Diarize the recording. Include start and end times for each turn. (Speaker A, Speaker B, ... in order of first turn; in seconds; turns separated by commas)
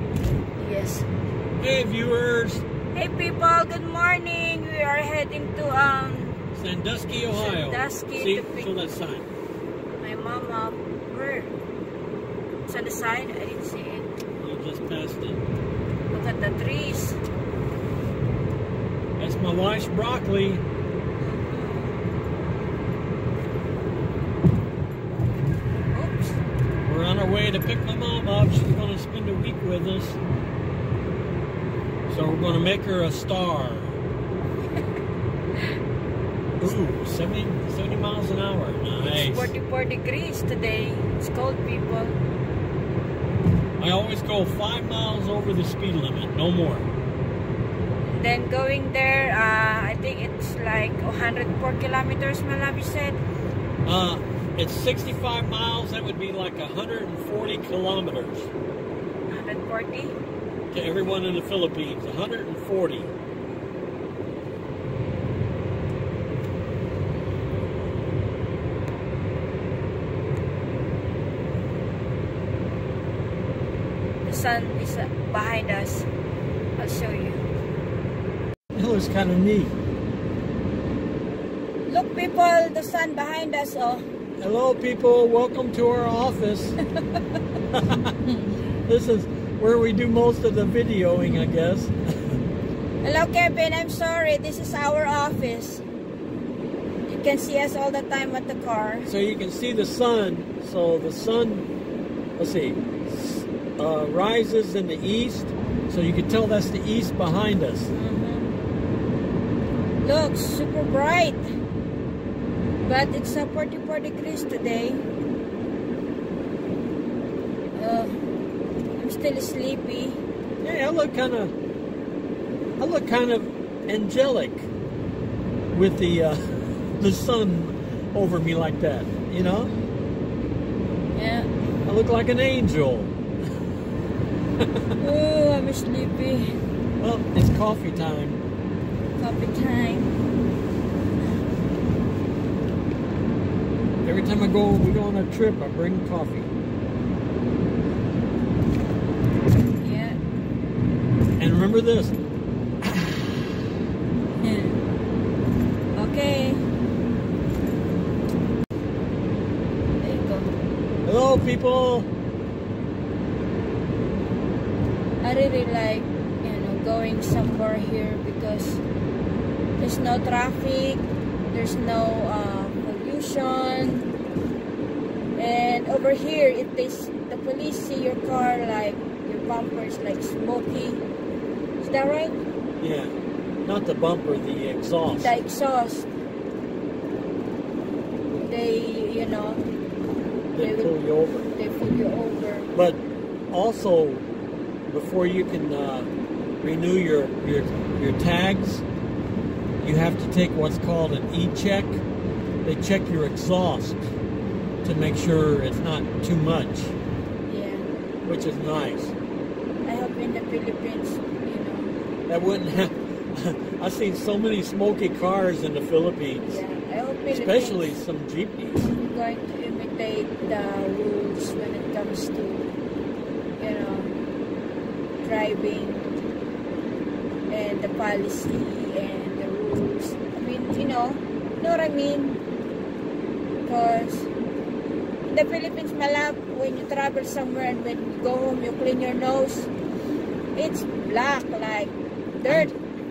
Speaker A: 0.6-1.1, Speaker B: 1.6-2.6, Speaker A: 2.9-6.4, Speaker B: 6.5-9.3, Speaker A: 7.3-8.7, Speaker A: 10.0-11.5, Speaker A: 12.7-14.1, Speaker B: 14.4-15.4, Speaker A: 16.1-17.2, Speaker B: 19.2-20.6, Speaker A: 21.2-22.1, Speaker A: 25.9-26.4, Speaker B: 26.8-30.2, Speaker B: 32.1-34.0, Speaker B: 36.6-39.5, Speaker A: 39.0-42.2, Speaker B: 43.8-46.9, Speaker A: 48.0-53.2, Speaker B: 53.8-58.5, Speaker A: 59.3-60.1, Speaker B: 60.7-63.1, Speaker A: 74.2-76.1, Speaker A: 76.8-77.4, Speaker B: 78.7-79.7, Speaker A: 81.9-84.0, Speaker B: 84.4-86.8, Speaker B: 87.7-88.2, Speaker A: 88.2-88.5, Speaker B: 88.8-92.4, Speaker A: 93.0-95.8, Speaker A: 97.1-99.1, Speaker B: 99.0-101.7, Speaker B: 102.4-107.9, Speaker A: 107.9-108.5, Speaker A: 110.0-111.4, Speaker A: 112.8-115.0, Speaker A: 117.7-118.2, Speaker A: 119.0-120.2, Speaker B: 120.6-121.5, Speaker B: 122.8-124.7, Speaker B: 125.7-129.7, Speaker A: 131.1-131.5, Speaker B: 131.8-133.2, Speaker B: 134.6-134.9, Speaker A: 135.0-136.5, Speaker B: 137.0-138.4, Speaker A: 139.2-140.2, Speaker B: 144.0-146.5, Speaker A: 149.8-150.2, Speaker B: 151.4-152.2, Speaker B: 152.8-153.2, Speaker A: 154.4-154.8, Speaker A: 155.9-156.6, Speaker A: 160.0-160.5, Speaker B: 161.0-162.1, Speaker A: 165.2-168.8, Speaker A: 169.8-174.1, Speaker A: 175.3-181.0, Speaker A: 181.8-182.4, Speaker B: 182.8-185.4, Speaker A: 185.2-186.1, Speaker A: 188.3-189.7, Speaker B: 190.5-191.5, Speaker A: 190.6-191.0, Speaker A: 191.5-192.7, Speaker B: 192.7-193.0, Speaker B: 193.5-194.3, Speaker B: 194.9-198.8, Speaker B: 199.8-202.0, Speaker B: 202.6-204.1, Speaker B: 204.8-206.9, Speaker A: 207.4-207.9, Speaker B: 208.2-209.1, Speaker A: 209.8-211.9, Speaker B: 212.3-216.6, Speaker A: 216.5-217.9, Speaker B: 217.3-218.9, Speaker A: 218.8-222.7, Speaker A: 223.6-224.2, Speaker A: 225.2-226.1, Speaker A: 227.5-232.4, Speaker A: 233.6-234.3, Speaker A: 235.3-239.7, Speaker A: 240.5-242.7, Speaker B: 242.4-242.7